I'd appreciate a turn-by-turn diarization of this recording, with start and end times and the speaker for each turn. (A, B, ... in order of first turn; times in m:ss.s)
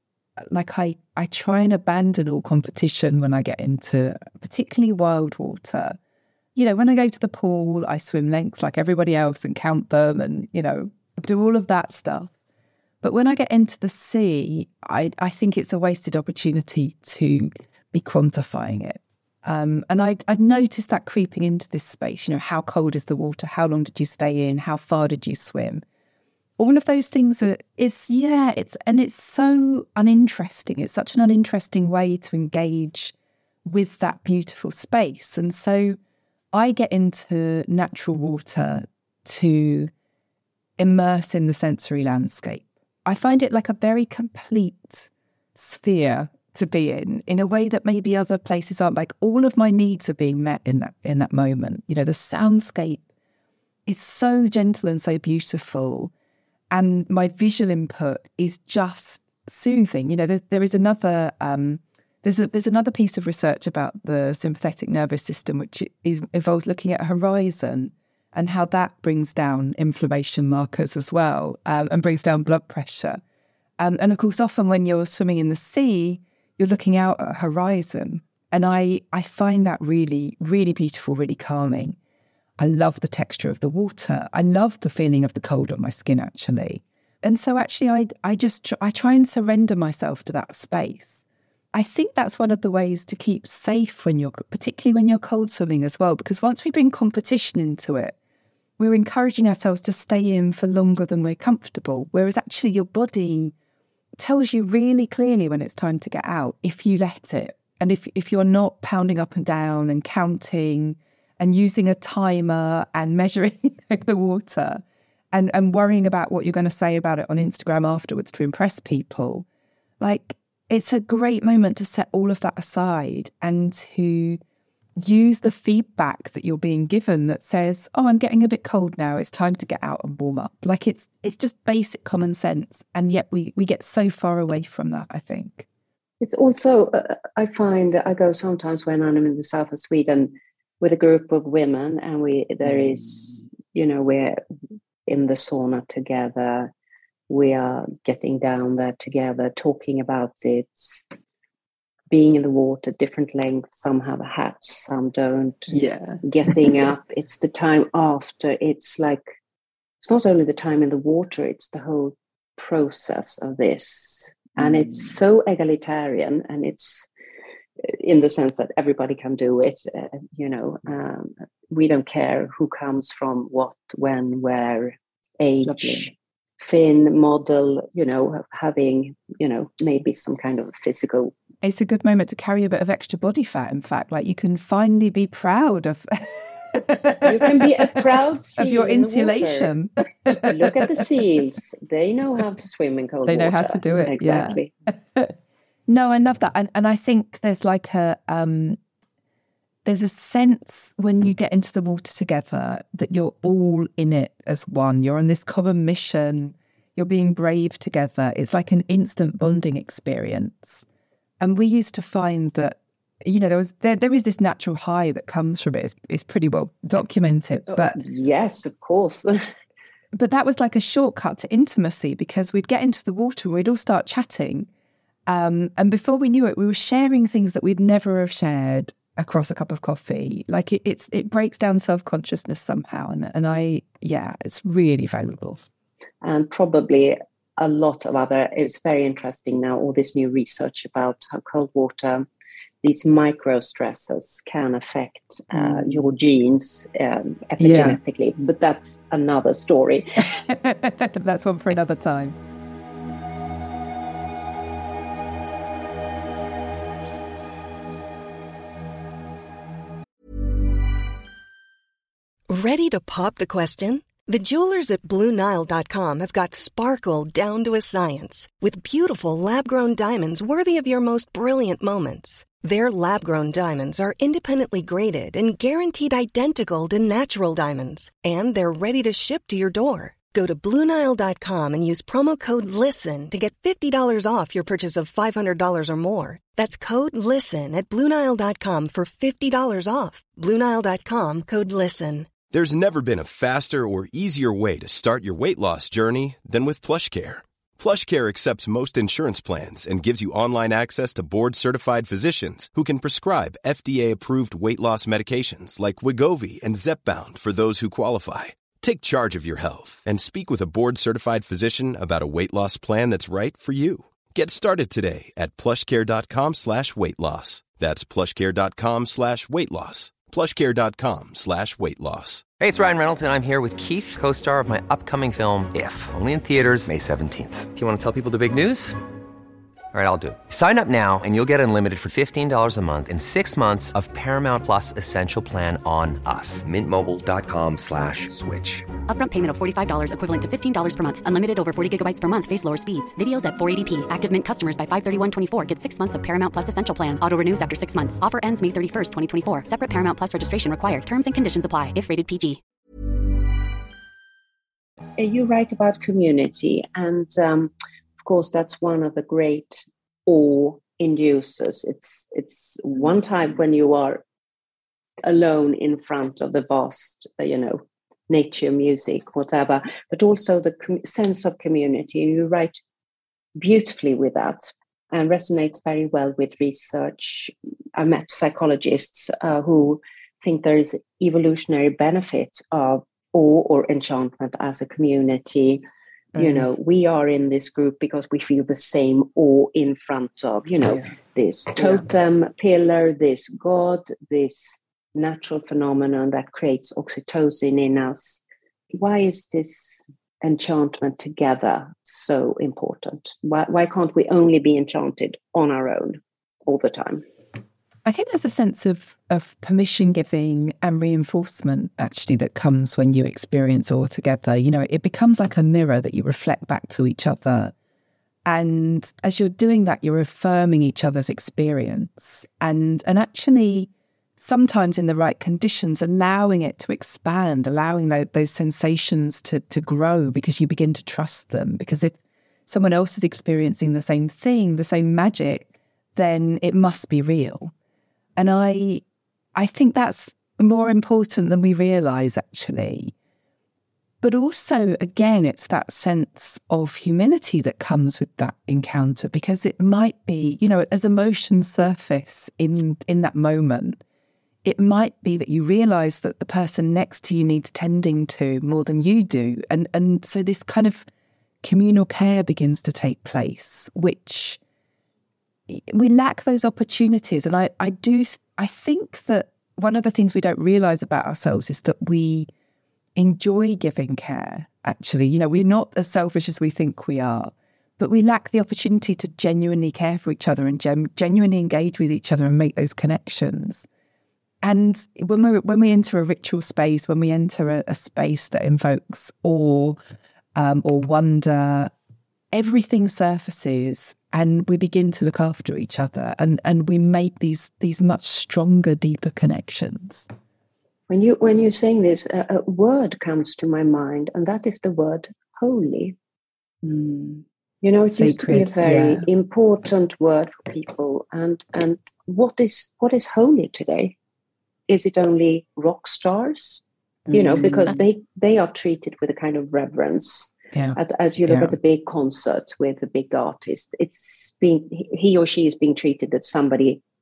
0:00.5-0:06.0 A
0:06.6-0:12.3 A
0:13.0-0:25.8 A
0:26.6-0:33.1 A
0:33.6-0:36.0 A
0:36.5-0:39.9 A
0:40.8-0:53.0 A
0:53.9-0:56.1 A
0:56.7-1:13.2 A
1:13.8-1:22.0 A
1:22.6-1:38.1 A
1:38.8-1:43.5 A
1:44.2-1:59.4 A
2:00.0-2:04.4 A
2:05.0-2:15.7 A
2:16.2-2:24.4 B
2:25.1-2:26.7 B
2:27.3-2:31.0 B
2:32.1-2:39.2 B
2:35.7-2:36.7 A
2:40.0-2:47.1 B
2:44.6-2:45.1 A
2:47.8-3:01.3 B
2:55.6-2:56.1 A
3:01.6-3:08.0 A
3:07.2-3:09.7 B
3:08.6-3:11.1 A
3:10.4-3:14.7 B
3:13.2-3:14.6 A
3:15.9-3:18.8 A
3:19.8-3:30.8 A
3:31.4-3:38.0 A
3:37.7-3:39.4 B
3:40.1-3:44.7 A
3:45.3-3:55.6 A
3:56.2-4:02.2 B
4:02.8-4:10.3 B
4:05.5-4:06.0 A
4:07.6-4:08.0 A
4:10.2-4:12.4 A
4:22.5-4:52.4 C
4:52.5-5:22.4 D
5:22.6-5:29.0 E
5:29.9-5:38.8 E
5:39.1-5:52.6 F
5:55.2-6:04.2 B
6:05.2-6:12.8 B
6:13.6-6:25.8 B
6:26.3-6:26.7 A
6:26.4-6:38.4 B
6:31.7-6:32.0 A
6:38.9-6:47.2 B
6:48.0-6:57.7 A
6:58.4-7:12.2 A
7:12.7-7:17.7 A
7:18.4-7:19.0 A
7:19.5-7:23.1 A
7:24.2-7:34.0 A
7:34.6-7:41.1 A
7:41.6-7:44.6 A
7:45.7-7:52.5 A
7:53.2-8:03.9 A
8:04.6-8:10.0 A
8:10.5-8:11.9 A
8:12.5-8:20.3 A
8:21.1-8:26.2 B
8:26.8-8:27.4 A
8:27.8-8:34.1 B
8:28.0-8:29.3 A
8:34.9-8:47.0 B
8:37.3-8:38.0 A
8:40.7-8:41.7 A